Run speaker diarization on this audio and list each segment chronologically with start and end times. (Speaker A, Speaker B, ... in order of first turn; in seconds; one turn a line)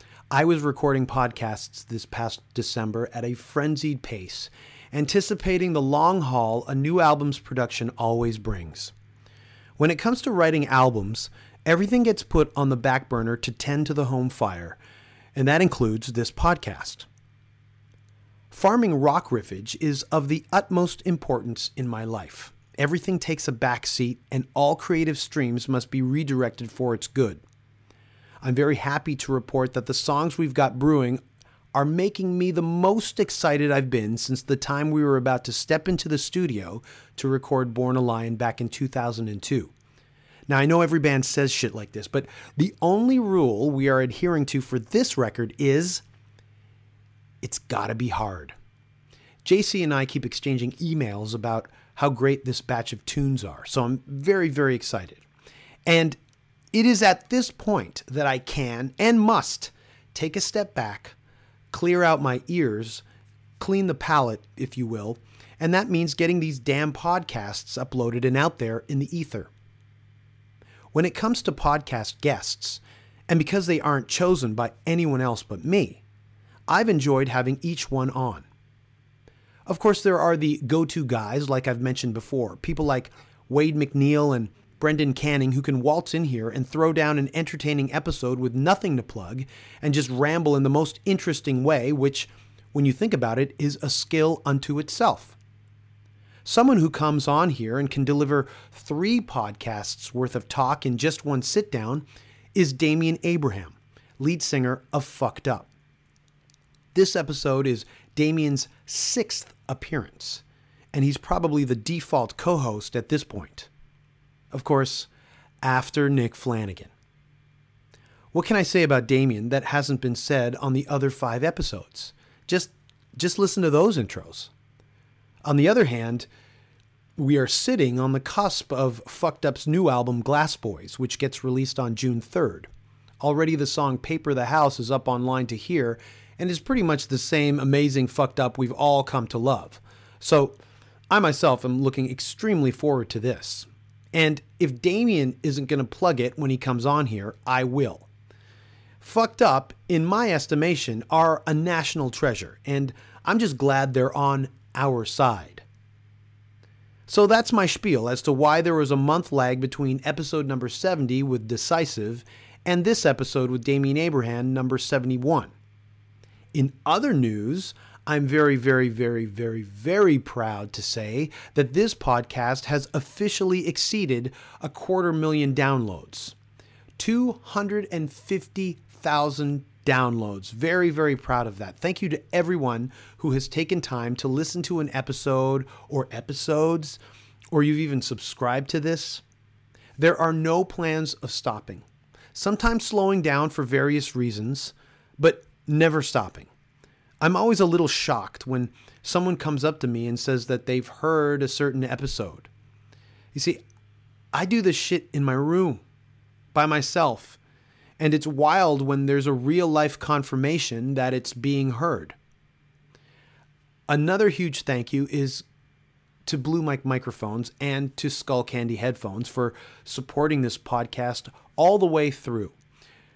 Speaker A: 0.3-8.9
Speaker A: 9.8-14.8
Speaker A: 15.3-17.1
Speaker A: 18.5-27.4
Speaker A: 28.4-31.2
Speaker A: 31.7-39.7
Speaker A: 40.5-46.0
Speaker A: 47.4-48.5
Speaker A: 49.4-55.2
Speaker A: 55.9-56.2
Speaker A: 56.7-61.1
Speaker A: 61.7-63.0
Speaker A: 63.6-69.5
Speaker A: 70.9-76.0
Speaker A: 76.7-78.5
Speaker A: 79.7-95.3
Speaker A: 96.4-105.7
Speaker A: 106.9-113.7
Speaker A: 114.5-115.1
Speaker A: 115.6-116.9
Speaker A: 118.3-124.5
Speaker A: 125.4-126.3
Speaker A: 127.2-132.7
Speaker A: 133.2-140.6
Speaker A: 141.1-148.1
Speaker A: 149.0-155.6
Speaker A: 157.1-165.5
Speaker A: 166.5-176.3
Speaker A: 177.0-187.0
Speaker A: 187.5-189.2
Speaker A: 190.0-196.5
Speaker A: 197.2-202.5
Speaker A: 203.3-203.6
Speaker A: 204.3-205.8
Speaker A: 206.5-207.4
Speaker A: 208.0-212.2
Speaker A: 213.9-215.4
Speaker A: 216.2-222.5